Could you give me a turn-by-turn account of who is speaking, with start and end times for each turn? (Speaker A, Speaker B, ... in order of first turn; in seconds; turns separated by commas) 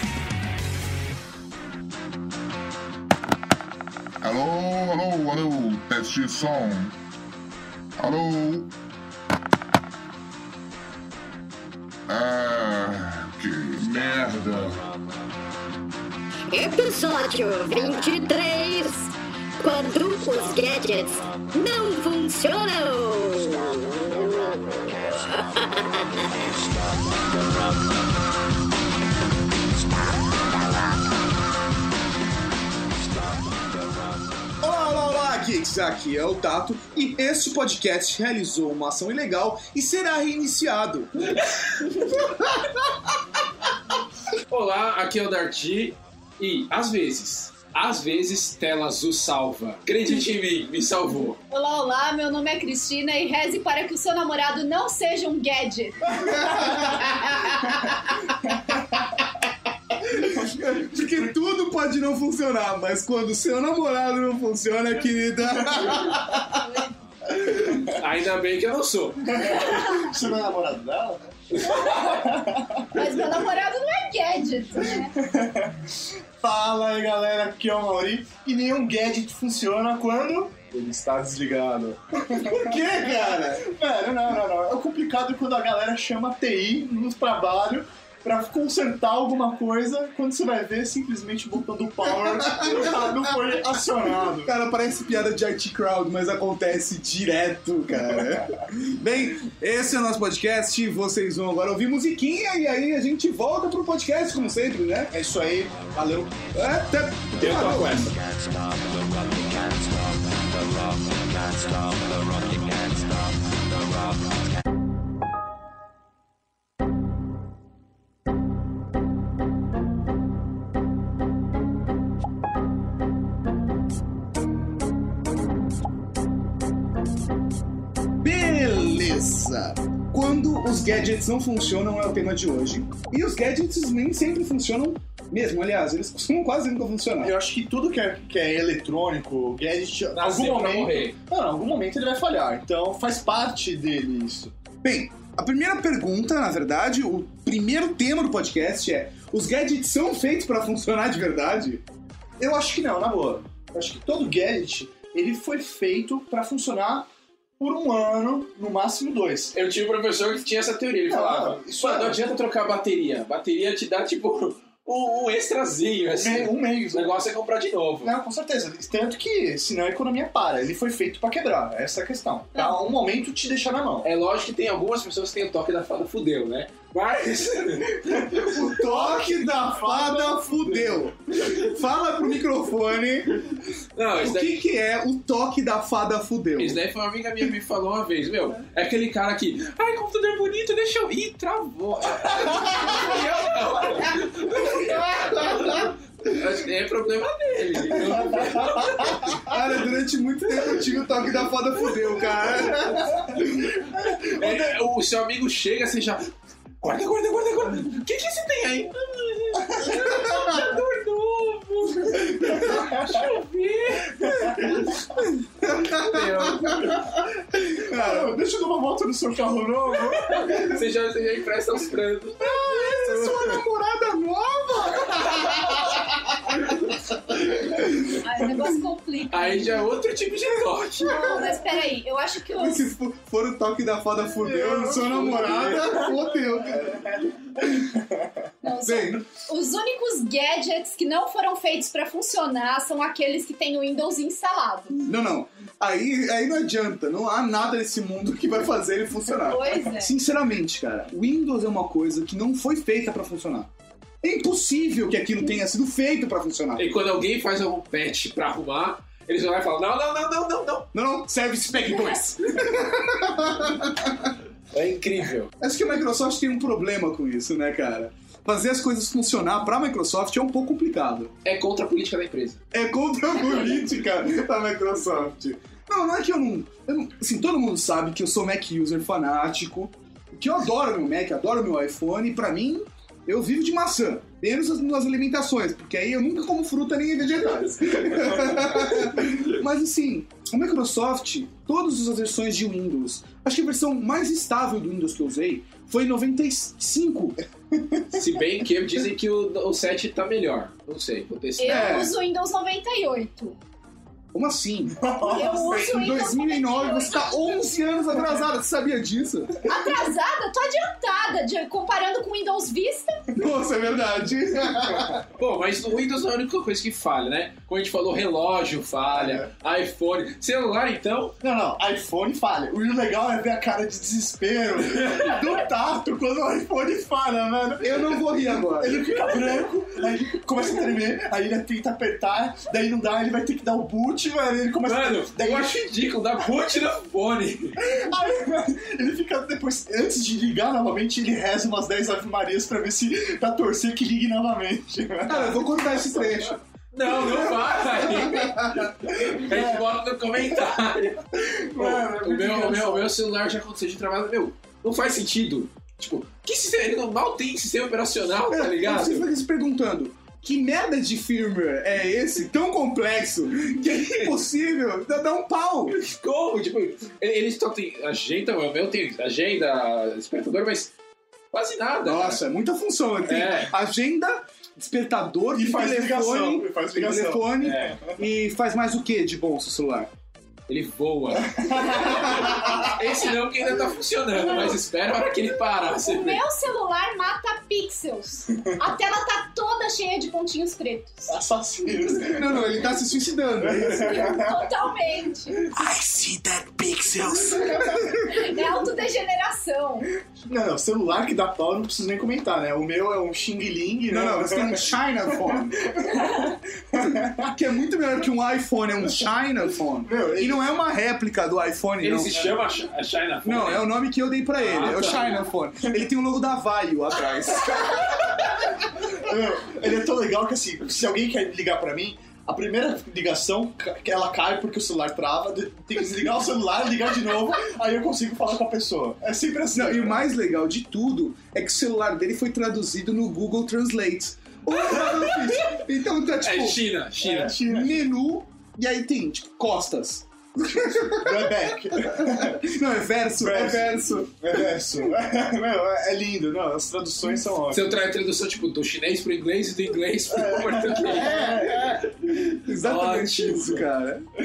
Speaker A: 4.2-6.9, Speaker A: 8.0-8.7, Speaker A: 12.1-14.8, Speaker B: 16.5-19.1, Speaker B: 19.6-25.8, Speaker C: 34.6-41.1, Speaker D: 41.3-42.2, Speaker C: 42.4-42.6, Speaker D: 44.5-51.4, Speaker E: 51.5-57.2, Speaker C: 56.2-57.3, Speaker C: 60.0-66.6, Speaker E: 66.5-66.9, Speaker D: 67.8-69.5, Speaker F: 69.2-73.0, Speaker D: 71.5-72.1, Speaker E: 72.9-75.1, Speaker F: 75.2-75.8, Speaker F: 76.4-94.5, Speaker C: 82.3-83.6, Speaker C: 92.4-92.9, Speaker C: 94.4-105.1, Speaker F: 105.1-106.3, Speaker C: 106.5-108.1, Speaker D: 107.4-108.1, Speaker C: 128.2-137.3, Speaker F: 137.2-144.5, Speaker D: 140.1-141.1, Speaker C: 144.8-151.8, Speaker F: 152.4-157.1, Speaker F: 157.6-159.5, Speaker D: 159.5-168.1, Speaker F: 161.1-162.2, Speaker F: 166.1-167.3, Speaker F: 168.0-174.1, Speaker D: 174.0-178.5, Speaker F: 178.0-181.1, Speaker C: 178.5-183.4, Speaker D: 183.9-184.6, Speaker C: 184.2-186.8, Speaker D: 186.6-199.4, Speaker C: 194.7-195.9, Speaker C: 199.4-203.4, Speaker D: 203.4-215.0, Speaker F: 204.3-204.7, Speaker C: 210.1-210.5, Speaker C: 215.1-217.0, Speaker D: 215.8-217.0, Speaker C: 217.5-218.4, Speaker F: 217.9-220.7, Speaker D: 220.5-223.0, Speaker F: 222.4-223.6, Speaker C: 222.6-226.6, Speaker C: 227.3-227.8, Speaker E: 228.2-229.7, Speaker D: 229.3-231.2, Speaker E: 231.1-232.9, Speaker C: 232.6-237.6, Speaker F: 234.3-238.3, Speaker E: 238.6-245.0, Speaker C: 238.8-239.2, Speaker C: 245.0-253.7, Speaker E: 249.4-250.1, Speaker C: 254.2-256.9, Speaker D: 256.8-260.9, Speaker C: 260.9-264.3, Speaker D: 264.7-265.5, Speaker C: 265.6-271.3, Speaker D: 271.4-272.6, Speaker C: 272.7-297.4, Speaker F: 297.7-298.0, Speaker D: 298.1-302.0, Speaker E: 301.6-303.6, Speaker C: 301.6-302.1, Speaker C: 304.3-309.6, Speaker F: 305.0-305.6, Speaker E: 305.3-307.4, Speaker E: 309.6-313.3, Speaker C: 313.3-315.2, Speaker D: 315.4-321.4, Speaker F: 319.1-319.4, Speaker F: 321.4-328.2, Speaker D: 324.8-325.4, Speaker C: 327.8-329.2, Speaker F: 328.8-335.8, Speaker D: 334.8-337.8, Speaker F: 337.8-345.8, Speaker C: 345.3-346.6, Speaker D: 346.9-351.2, Speaker F: 348.0-348.4, Speaker F: 349.1-349.8, Speaker F: 351.3-353.1, Speaker D: 351.8-359.3, Speaker C: 358.5-366.0, Speaker D: 365.9-370.9, Speaker D: 371.5-372.4, Speaker C: 372.0-380.1, Speaker D: 373.2-373.7, Speaker F: 375.5-378.1, Speaker D: 377.6-377.9, Speaker D: 380.7-386.4, Speaker F: 381.5-382.8, Speaker E: 384.4-384.8, Speaker E: 386.0-391.3, Speaker F: 391.3-392.8, Speaker C: 392.2-394.4, Speaker F: 393.7-394.5, Speaker E: 393.9-395.6, Speaker C: 395.7-398.5, Speaker F: 397.5-397.9, Speaker E: 398.2-400.1, Speaker F: 400.4-404.8, Speaker C: 404.1-406.0, Speaker F: 406.0-407.5, Speaker C: 407.0-412.3, Speaker F: 410.0-410.7, Speaker D: 412.0-413.9, Speaker C: 413.4-418.4, Speaker D: 414.6-415.3, Speaker F: 419.1-430.2, Speaker C: 429.7-436.8, Speaker D: 435.0-435.8, Speaker D: 436.4-437.6, Speaker F: 437.2-438.1, Speaker C: 437.6-444.6, Speaker F: 441.1-442.6, Speaker F: 443.4-447.9, Speaker D: 447.7-453.8, Speaker F: 450.3-452.0, Speaker C: 452.5-454.3